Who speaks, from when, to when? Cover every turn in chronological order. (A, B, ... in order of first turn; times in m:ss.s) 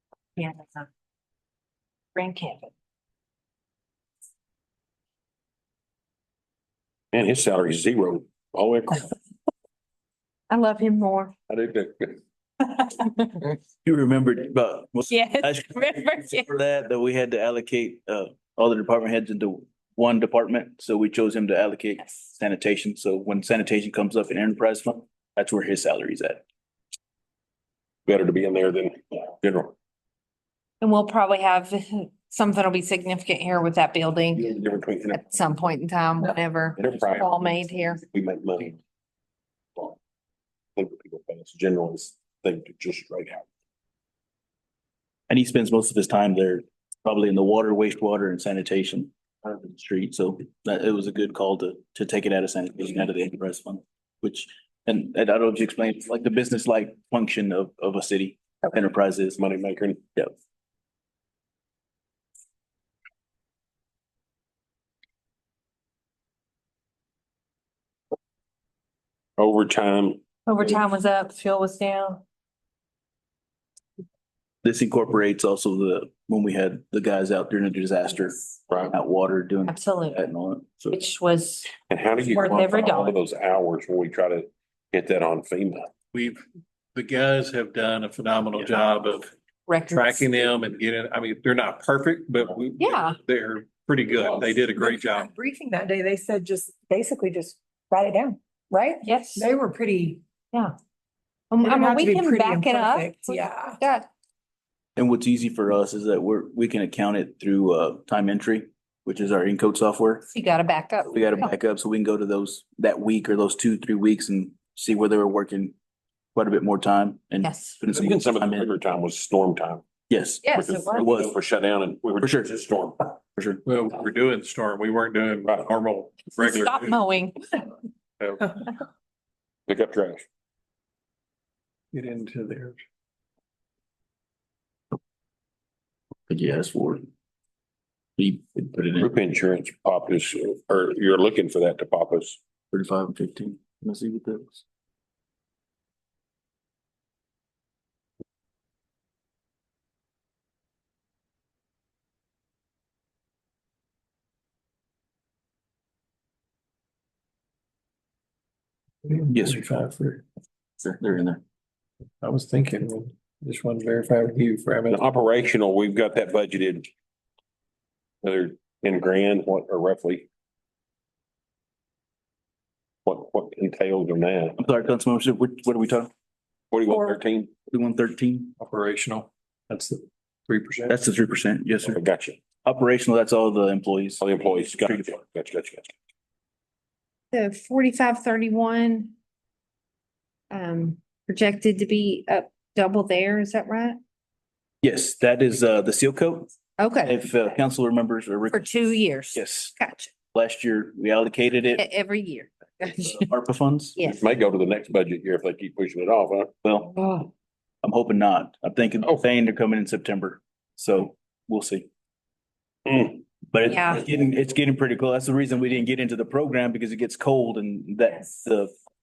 0:00.4-0:00.9 A
0:02.2-0:02.7 A
0:07.1-0:09.1 B
0:10.5-0:11.3 A
0:11.5-0:12.2 B
0:12.6-0:13.3 A
0:13.8-0:26.4 C
0:15.1-0:16.5 A
0:28.1-0:29.7 B
0:30.8-0:34.5 A
0:34.4-0:35.4 B
0:35.1-0:38.0 A
0:36.8-0:37.3 B
0:38.0-0:38.8 B
0:40.8-0:43.4 B
0:45.3-0:59.4 C
0:59.4-1:00.0 B
1:09.4-1:10.2 B
1:10.5-1:12.2 A
1:14.6-1:21.0 C
1:19.7-1:20.2 A
1:20.9-1:21.7 A
1:21.9-1:25.9 B
1:22.2-1:23.2 A
1:26.1-1:26.4 D
1:27.0-1:29.3 D
1:29.7-1:30.3 A
1:29.9-1:35.3 D
1:32.8-1:33.2 A
1:34.7-1:40.2 E
1:39.0-1:39.5 A
1:41.5-1:44.1 A
1:41.6-1:43.8 E
1:45.0-1:50.3 C
1:50.3-1:51.5 A
1:51.1-1:55.7 C
1:56.4-1:58.7 C
1:57.4-1:57.8 A
1:57.9-1:59.8 B
2:00.1-2:00.4 C
2:00.4-2:01.0 A
2:00.6-2:03.1 B
2:01.0-2:01.4 C
2:02.2-2:02.6 C
2:03.4-2:03.6 C
2:03.7-2:07.0 D
2:06.3-2:07.7 A
2:08.2-2:08.6 D
2:09.7-2:10.2 B
2:11.9-2:12.8 D
2:16.3-2:17.1 C
2:18.2-2:19.1 C
2:19.0-2:22.4 B
2:22.7-2:24.6 C
2:39.0-2:40.2 D
2:39.3-2:39.7 C
2:40.8-2:41.4 C
2:42.2-2:45.0 D
2:44.9-2:46.9 B
2:48.2-2:50.3 B
2:53.1-2:54.6 B
2:54.6-2:56.1 C
2:56.7-2:57.5 B
2:57.7-2:58.6 C
2:58.6-3:00.9 D
3:00.9-3:02.0 C
3:01.9-3:02.4 B
3:02.6-3:05.1 C
3:04.2-3:05.9 B
3:07.3-3:09.1 A
3:10.5-3:14.0 A
3:14.8-3:16.5 C
3:16.8-3:17.2 A
3:17.0-3:19.8 C
3:18.5-3:20.1 A
3:20.3-3:21.8 C
3:21.8-3:23.3 A
3:23.0-3:24.0 C
3:24.0-3:24.2 A
3:24.0-3:26.5 B
3:26.6-3:26.9 C
3:26.9-3:27.3 A
3:27.8-3:31.9 C
3:32.9-3:33.2 B
3:33.5-3:38.7 C
3:33.6-3:34.1 A